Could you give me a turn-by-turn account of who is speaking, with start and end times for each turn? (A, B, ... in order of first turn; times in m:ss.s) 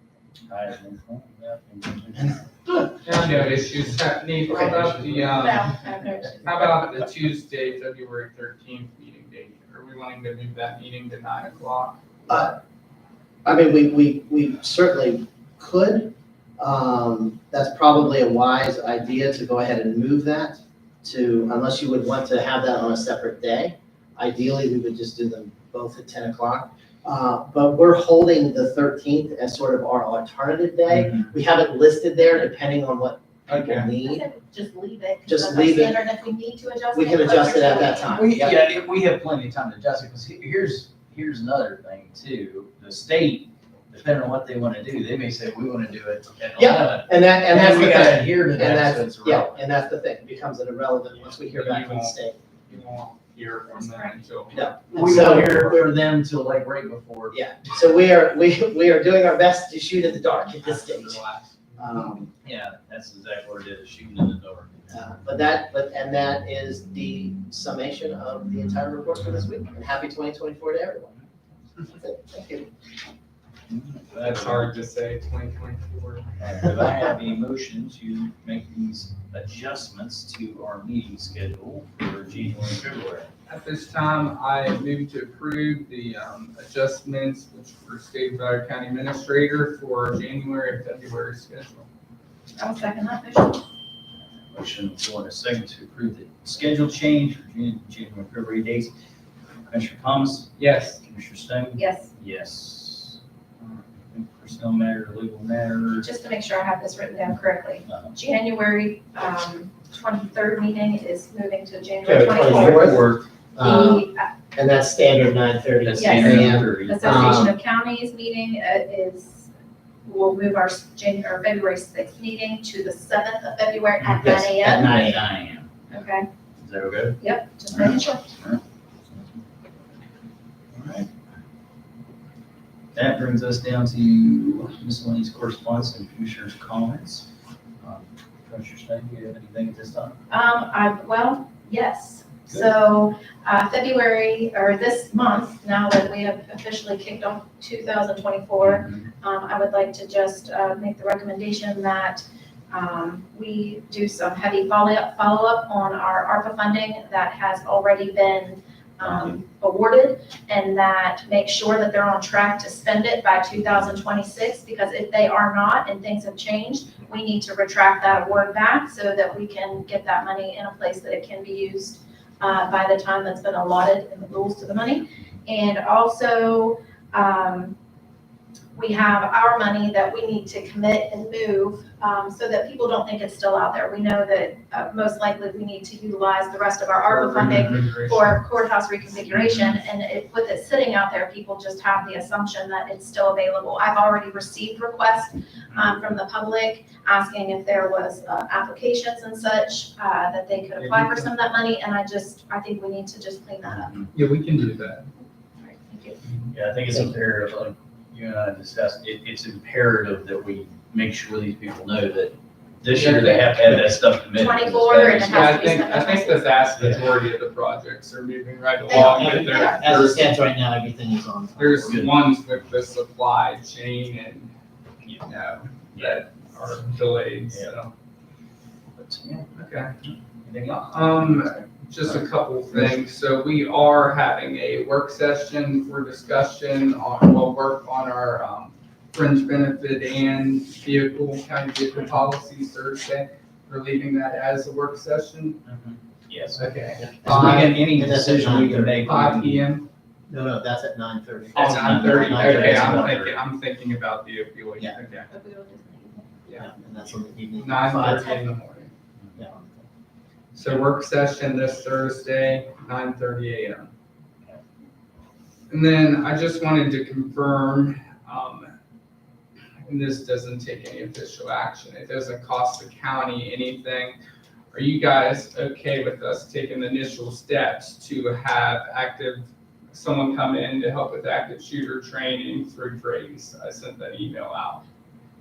0:00.5-0:02.5 A
0:03.0-0:05.7 B
0:04.5-0:05.7 C
0:05.3-0:06.7 D
0:06.2-0:06.5 C
0:06.4-0:12.0 B
0:12.3-0:12.6 C
0:13.4-0:34.3 C
0:31.0-0:31.2 A
0:33.5-0:33.9 B
0:34.0-0:38.2 D
0:35.3-0:36.0 C
0:36.9-0:38.6 C
0:38.1-0:49.6 A
0:46.6-0:52.4 C
0:51.5-0:55.8 B
0:53.7-0:54.2 D
0:54.5-0:55.7 C
0:54.9-0:57.4 A
0:57.3-1:01.2 C
1:00.6-1:02.1 B
1:01.8-1:02.3 C
1:02.4-1:05.0 A
1:04.9-1:11.2 C
1:11.9-1:12.7 C
1:13.7-1:14.8 A
1:14.2-1:16.3 B
1:16.4-1:23.3 A
1:23.5-1:31.9 B
1:32.6-1:33.6 D
1:34.5-1:38.9 A
1:39.7-1:46.1 A
1:40.6-1:41.0 B
1:41.8-1:42.1 D
1:46.0-1:53.1 D
1:47.9-1:48.1 A
1:52.0-1:57.5 C
1:53.6-1:54.3 D
1:55.8-1:57.3 A
1:56.0-1:59.5 D
2:00.1-2:05.0 D
2:04.2-2:05.2 C
2:04.7-2:05.7 A
2:05.9-2:06.3 D
2:06.6-2:07.2 A
2:07.2-2:08.3 D
2:07.7-2:08.6 A
2:10.7-2:11.1 A
2:12.9-2:17.3 A
2:17.8-2:20.2 A
2:20.3-2:57.8 D
2:28.6-2:29.0 A
2:58.8-3:24.0 D
3:07.0-3:08.4 B
3:15.7-3:16.1 A
3:20.8-3:21.3 B
3:23.7-3:24.1 A
3:24.1-3:25.1 B
3:25.6-3:26.2 D
3:26.3-3:26.5 B
3:26.5-3:35.7 A
3:32.9-3:33.7 B
3:34.4-3:36.5 D
3:35.3-3:40.3 B
3:38.9-3:40.0 D
3:39.2-3:41.9 C
3:41.6-3:44.5 B
3:41.8-3:42.2 A
3:45.0-3:45.3 A
3:45.2-3:47.9 B
3:45.9-3:46.2 A
3:49.0-3:49.5 A
3:49.6-3:49.9 B
3:50.0-3:52.2 A
3:50.7-4:05.6 B
4:05.7-4:06.6 A
4:06.6-4:07.8 B
4:07.0-4:09.1 C
4:07.2-4:09.6 A
4:09.0-4:09.9 B
4:10.3-4:13.2 C
4:11.5-4:13.3 A
4:11.6-4:15.3 B
4:15.3-4:16.4 D
4:16.4-4:16.7 B
4:16.6-4:18.3 C
4:17.6-4:18.9 B
4:18.1-4:18.4 D
4:19.4-4:19.8 C
4:20.6-4:23.9 B
4:25.7-4:28.7 B
4:29.8-4:34.2 B
4:34.7-4:44.8 B